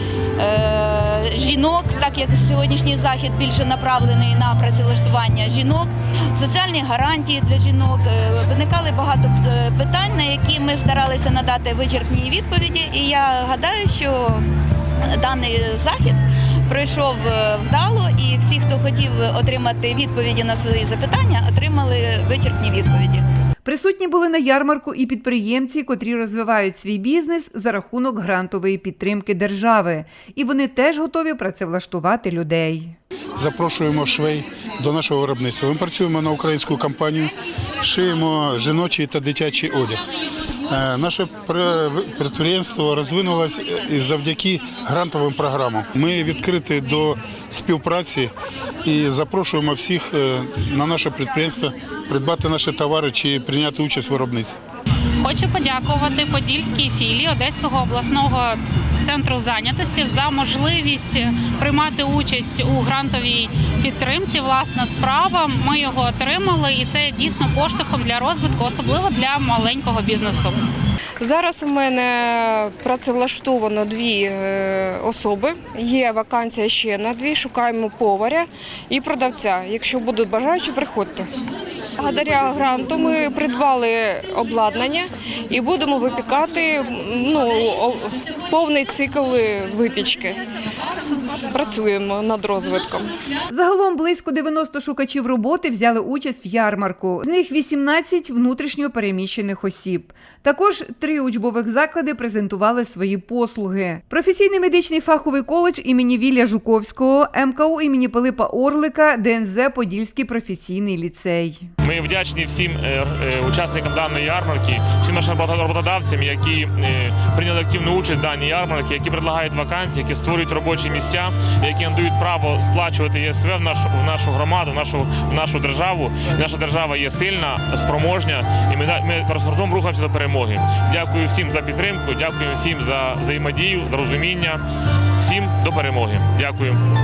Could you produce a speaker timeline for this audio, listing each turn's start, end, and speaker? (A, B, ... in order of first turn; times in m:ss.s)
0:00.4-0:14.4 A
0:15.1-0:23.2 A
0:23.6-0:32.9 B
0:33.4-0:40.0 C
0:40.7-0:48.3 C
0:48.8-0:54.6 C
0:55.2-1:10.6 D
1:11.2-1:21.3 E
1:22.0-1:30.4 E
1:31.3-1:33.1 E
1:33.5-1:51.6 B
1:51.8-2:14.6 F
2:15.2-2:16.8 F